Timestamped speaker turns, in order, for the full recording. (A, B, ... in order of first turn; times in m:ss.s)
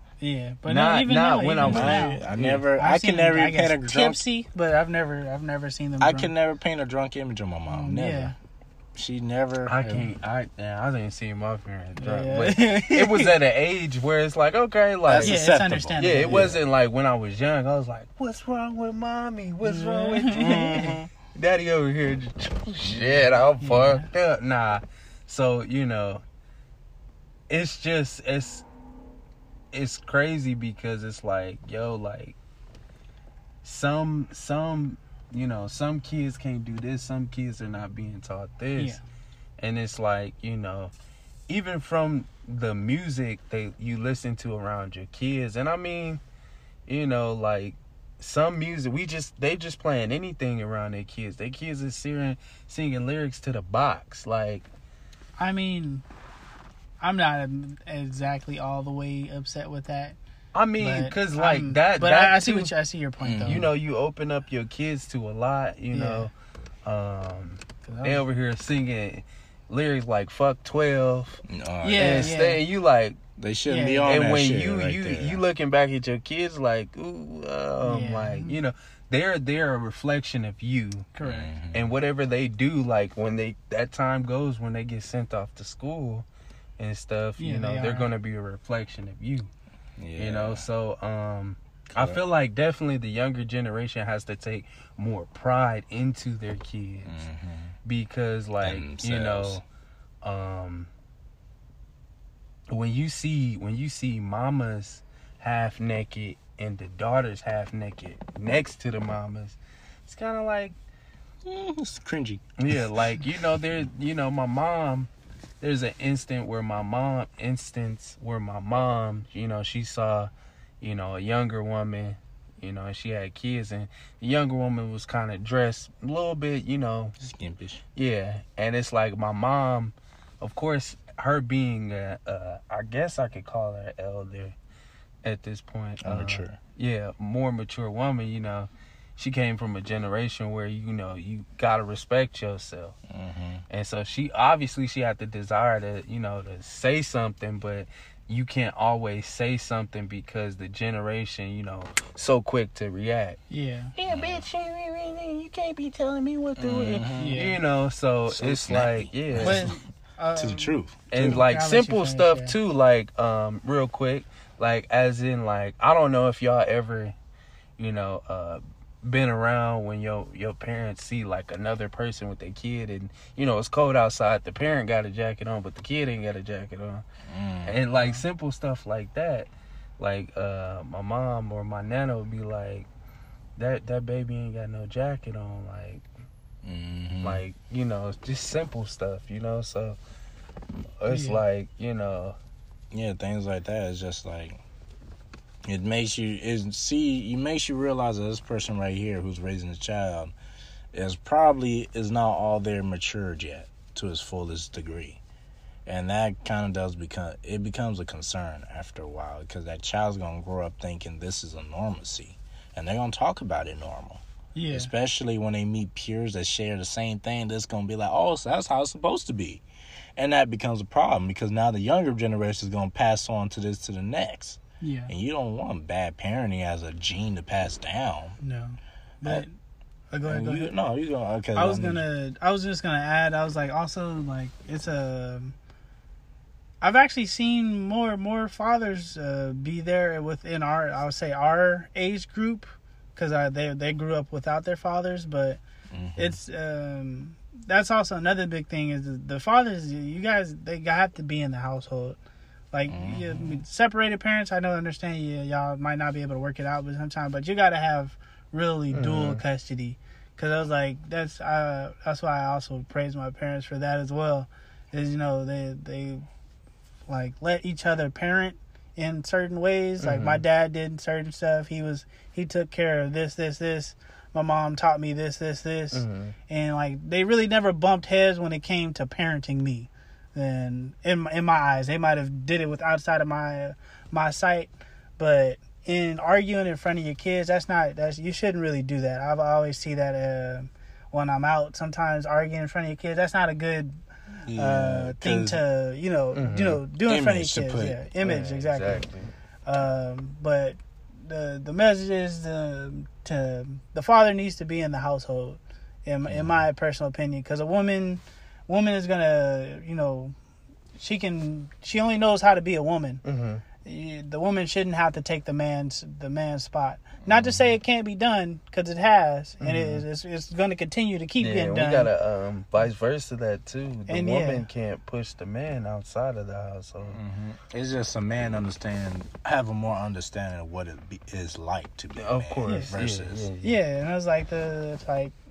0:00.2-0:02.2 A
0:00.7-0:02.6 B
0:01.6-0:04.2 C
0:02.8-0:06.3 A
0:06.0-0:08.3 C
0:07.7-0:08.4 A
0:09.0-0:10.1 C
0:09.7-0:15.4 B
0:12.0-0:13.3 A
0:15.1-0:16.6 C
0:15.2-0:16.5 A
0:16.0-0:26.2 B
0:19.6-0:21.0 A
0:23.6-0:24.1 A
0:27.5-0:28.6 B
0:29.7-0:32.4 B
0:33.6-0:39.0 B
0:38.8-0:39.0 A
0:39.6-0:40.9 B
0:41.5-0:46.2 B
0:46.9-0:54.7 B
0:55.4-0:56.0 A
0:57.0-1:00.2 A
1:00.5-1:02.7 B
1:00.8-1:03.7 A
1:03.2-1:03.7 C
1:03.5-1:06.3 B
1:05.9-1:06.3 A
1:06.8-1:11.4 B
1:07.8-1:08.2 A
1:11.5-1:12.3 C
1:11.8-1:12.6 A
1:12.0-1:13.2 B
1:13.4-1:15.4 C
1:13.7-1:14.1 A
1:14.0-1:21.1 B
1:17.8-1:18.6 A
1:21.2-1:21.5 A
1:21.2-1:21.9 C
1:21.7-1:26.3 B
1:26.8-1:29.5 B
1:27.4-1:28.1 A
1:30.0-1:30.6 C
1:30.2-1:37.2 B
1:31.9-1:32.2 C
1:37.0-1:37.8 C
1:37.8-1:39.6 B
1:38.6-1:39.6 C
1:40.2-1:40.9 B
1:42.7-1:50.8 B
1:51.4-1:52.5 C
1:52.6-2:07.2 B
2:07.2-2:07.8 C
2:08.0-2:14.6 B
2:15.2-2:23.0 B
2:16.0-2:16.6 C
2:23.1-2:23.6 C
2:23.7-2:33.4 B
2:33.5-2:33.9 A
2:34.0-2:39.7 B
2:34.1-2:34.4 C
2:36.6-2:37.5 C
2:37.2-2:37.6 A
2:38.3-2:39.7 C
2:39.4-2:42.6 A
2:40.4-2:41.4 C
2:41.1-2:47.2 B
2:47.8-2:57.0 B
2:57.3-2:57.8 C
2:57.6-3:02.9 B
3:03.6-3:06.1 B
3:06.6-3:07.4 C
3:07.2-3:10.0 B
3:11.0-3:12.4 B
3:11.1-3:11.4 A
3:12.9-3:14.6 C
3:15.6-3:20.3 C
3:20.9-3:25.2 C
3:25.9-3:39.6 C
3:34.5-3:34.9 A
3:40.2-3:48.4 C
3:44.8-3:45.1 A
3:48.4-3:49.5 A
3:50.1-3:50.7 A
3:50.2-3:52.0 C
3:51.6-3:55.6 A
3:56.8-4:05.6 A
4:05.9-4:06.4 C
4:06.2-4:12.2 A
4:12.7-4:26.3 A
4:12.9-4:13.6 C
4:18.9-4:19.4 B
4:27.1-4:54.0 A
4:30.0-4:30.4 B
4:35.9-4:36.4 B
4:54.5-4:55.6 C
4:54.6-4:59.0 A
4:56.3-4:56.8 B
4:57.1-4:58.0 C
4:58.2-4:59.3 B
4:59.6-5:10.4 A
5:11.0-5:13.2 A
5:13.2-5:13.6 B
5:13.8-5:22.1 A
5:17.3-5:17.6 C
5:19.6-5:20.0 B
5:21.4-5:27.2 B
5:24.1-5:24.6 A
5:27.1-5:33.5 C
5:32.2-5:33.8 B
5:32.7-5:32.9 A
5:33.6-5:35.3 A